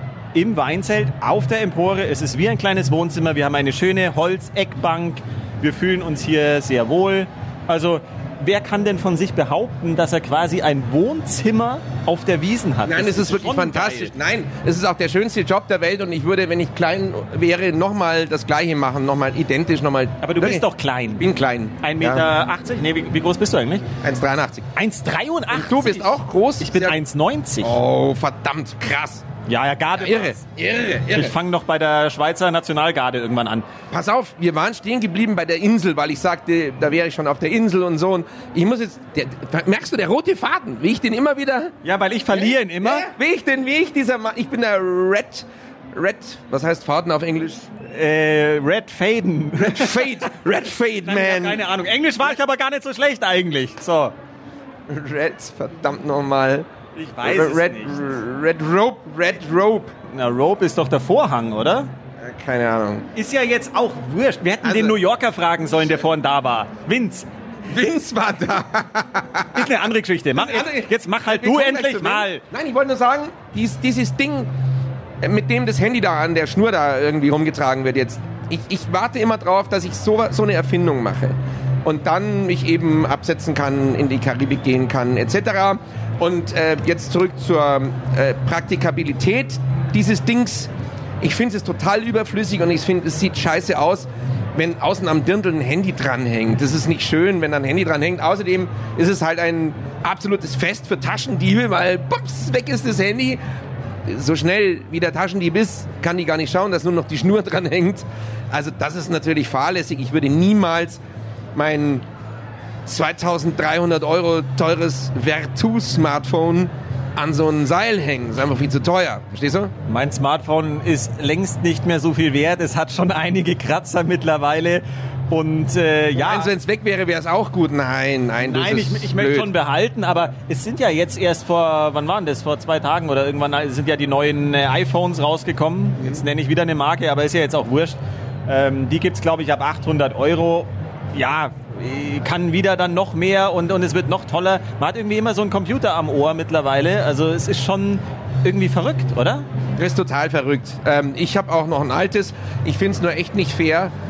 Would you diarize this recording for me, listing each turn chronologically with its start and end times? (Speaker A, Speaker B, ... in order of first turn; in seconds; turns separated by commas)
Speaker A: 0.3-14.1, Speaker B: 12.9-20.6, Speaker A: 20.2-21.3, Speaker B: 21.2-22.2, Speaker A: 21.8-23.9, Speaker B: 24.0-24.7, Speaker A: 24.8-27.8, Speaker B: 25.5-27.0, Speaker B: 27.6-29.3, Speaker A: 29.5-30.4, Speaker B: 30.0-31.4, Speaker A: 31.1-33.7, Speaker B: 33.9-41.7, Speaker A: 41.8-43.1, Speaker B: 42.4-47.7, Speaker A: 47.9-50.2, Speaker B: 49.6-51.6, Speaker A: 51.0-54.1, Speaker B: 54.9-56.7, Speaker A: 57.0-58.0, Speaker B: 57.2-59.9, Speaker A: 60.1-61.9, Speaker B: 62.2-63.1, Speaker A: 63.1-67.3, Speaker B: 64.6-65.0, Speaker B: 67.7-69.7, Speaker A: 69.5-72.4, Speaker B: 70.4-74.5, Speaker B: 75.2-103.4, Speaker B: 104.0-111.0, Speaker B: 111.5-112.0, Speaker B: 112.9-119.7, Speaker A: 119.9-126.5, Speaker B: 126.2-129.5, Speaker A: 128.4-149.4, Speaker B: 149.8-153.9